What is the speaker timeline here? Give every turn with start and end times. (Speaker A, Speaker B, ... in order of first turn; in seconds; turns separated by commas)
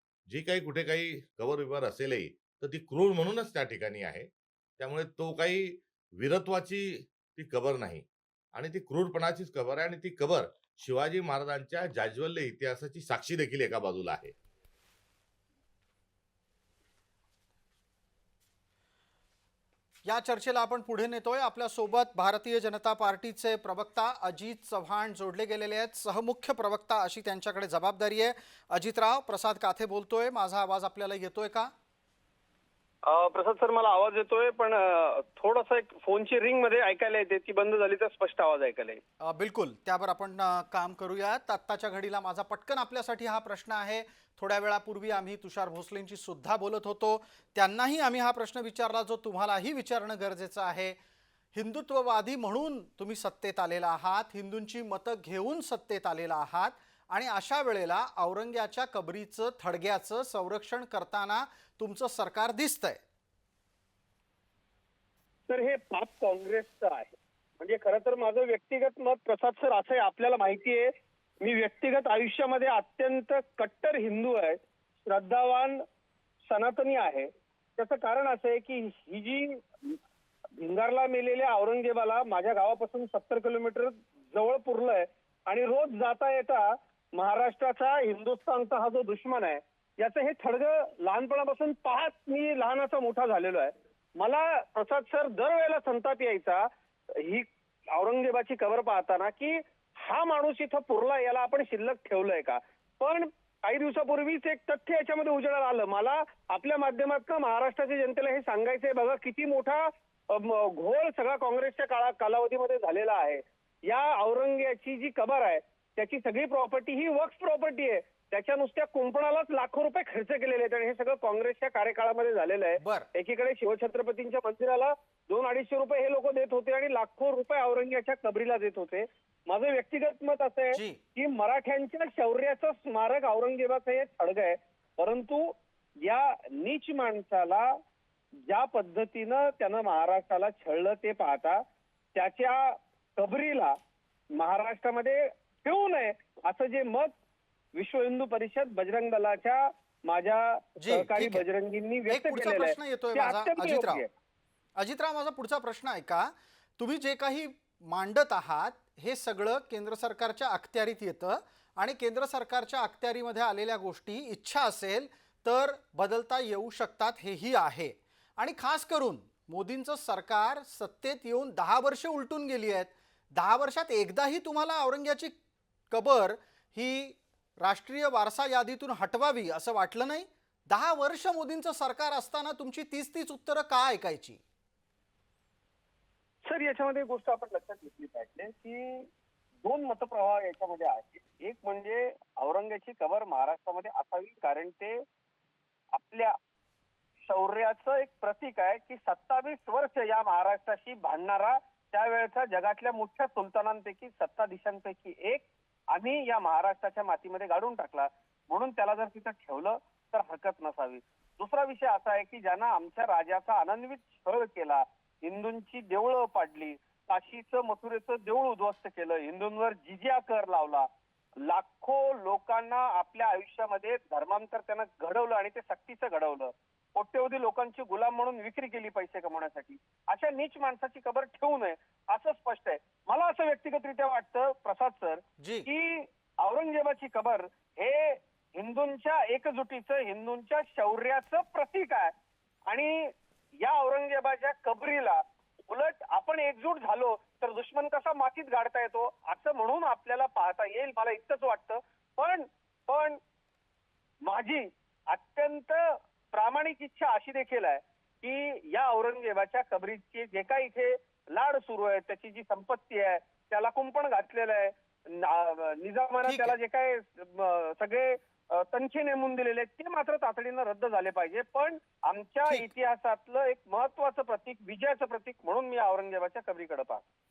Speaker A: 0.3-14.3, Speaker B: 20.1-31.7, Speaker C: 33.1-39.0, Speaker B: 39.2-51.0, Speaker B: 51.5-63.0, Speaker C: 65.5-70.9, Speaker C: 71.4-75.8, Speaker C: 76.5-79.9, Speaker C: 80.6-96.7, Speaker C: 97.2-137.7, Speaker B: 122.8-123.1, Speaker B: 130.7-131.0, Speaker C: 138.5-141.6, Speaker C: 142.1-143.7, Speaker C: 144.3-147.1, Speaker C: 147.7-154.1, Speaker B: 150.8-151.4, Speaker B: 152.1-154.0, Speaker B: 154.8-175.3, Speaker B: 175.9-184.4, Speaker C: 186.4-189.1, Speaker C: 189.6-195.0, Speaker C: 195.9-196.3, Speaker C: 197.3-220.9, Speaker C: 221.4-242.1, Speaker B: 235.4-235.7, Speaker C: 242.7-243.1, Speaker C: 243.6-253.2, Speaker C: 254.2-277.0, Speaker B: 266.2-266.6